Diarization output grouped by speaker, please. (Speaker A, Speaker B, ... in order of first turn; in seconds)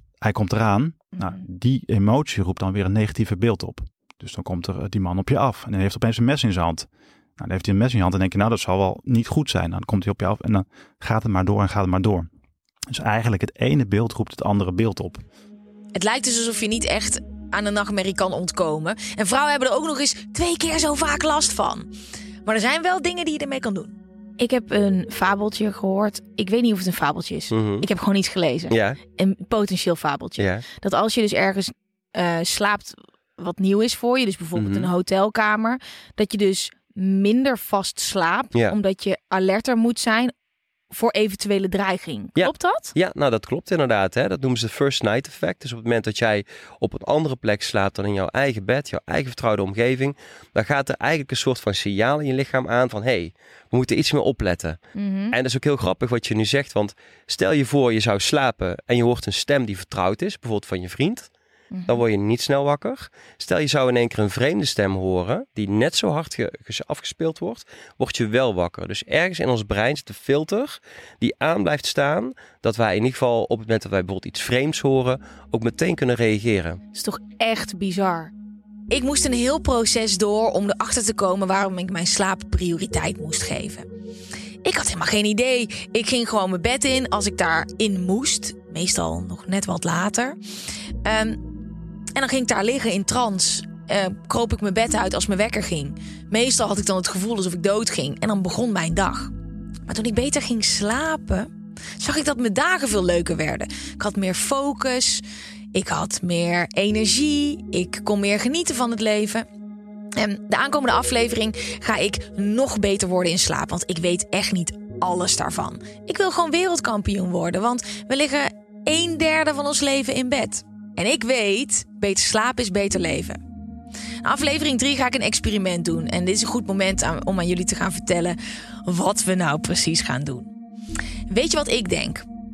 Speaker A: 0.2-12.3, 12.9-15.2
Speaker B: 1.1-1.4, 15.9-21.9, 22.4-40.3, 40.9-42.9, 55.0-55.4, 61.7-62.0, 76.9-78.3, 78.9-83.9, 84.7-90.4, 91.0-91.4, 92.2-99.3, 99.9-105.2, 105.7-109.5, 110.2-123.4, 124.2-130.5, 131.3-132.2
Speaker C: 27.5-27.9, 28.7-29.0, 30.4-30.6, 34.6-34.9, 42.4-54.8, 55.3-61.3, 61.9-76.8